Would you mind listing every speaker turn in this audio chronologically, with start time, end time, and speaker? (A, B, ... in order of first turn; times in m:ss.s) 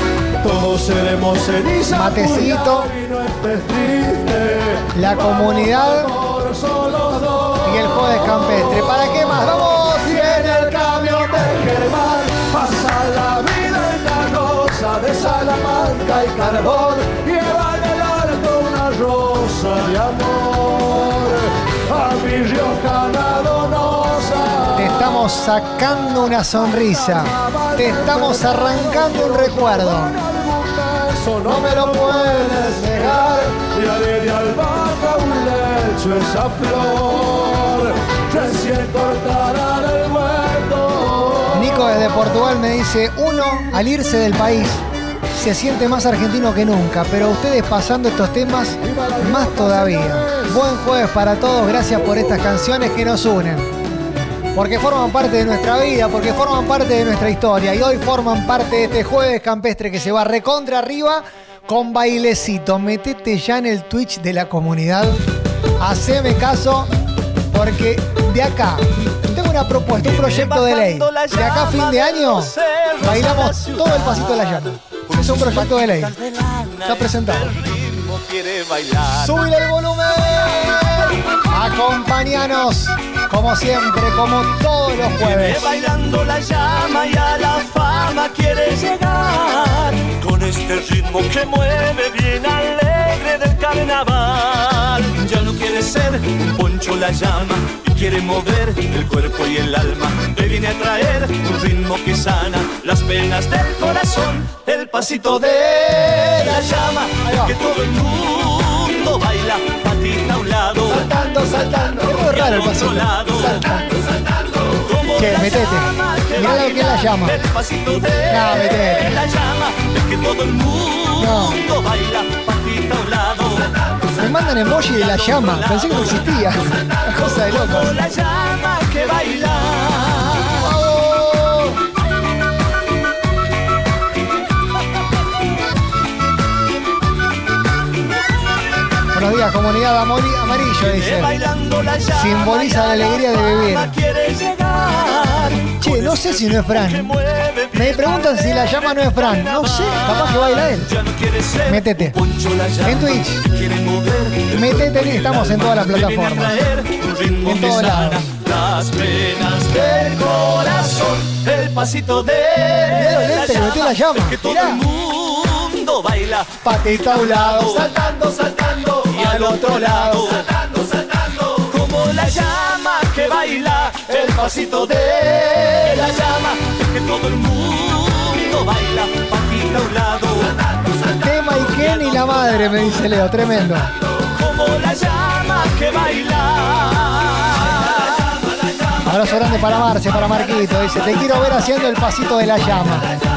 0:00.4-0:08.0 A
0:01.9-0:02.9 B
0:04.9-0:06.1 B
0:07.6-0:10.3 B
0:10.0-0:24.9 A
0:24.7-0:30.2 B
0:26.8-0:41.7 A
0:31.4-0:33.5 B
0:41.5-0:53.7 B
0:48.9-0:50.6 A
0:54.6-1:05.2 B
1:05.8-1:06.9 B
1:07.5-1:16.2 B
1:09.9-1:19.4 C
1:16.9-1:17.6 B
1:19.2-1:25.7 B
1:25.2-1:51.1 C
1:47.2-1:47.6 B
1:50.9-1:53.9 B
1:52.0-1:53.8 C
1:54.5-2:04.2 C
1:55.2-1:57.4 B
1:58.3-1:59.3 B
2:01.2-2:01.6 B
2:04.2-2:08.0 B
2:04.8-2:10.8 C
2:10.5-2:11.8 B
2:19.1-2:21.4 B
2:20.8-3:01.1 C
2:22.1-2:24.0 B
2:25.6-2:27.2 B
2:27.7-2:30.9 B
2:31.7-2:32.2 B
2:32.8-2:33.4 B
2:34.5-2:36.7 B
2:37.4-2:38.3 B
2:42.9-2:44.8 B
2:46.6-2:48.1 B
2:49.1-2:50.4 B
3:01.2-3:03.9 B
3:01.7-3:02.9 C
3:04.3-3:08.4 C
3:09.0-3:13.1 B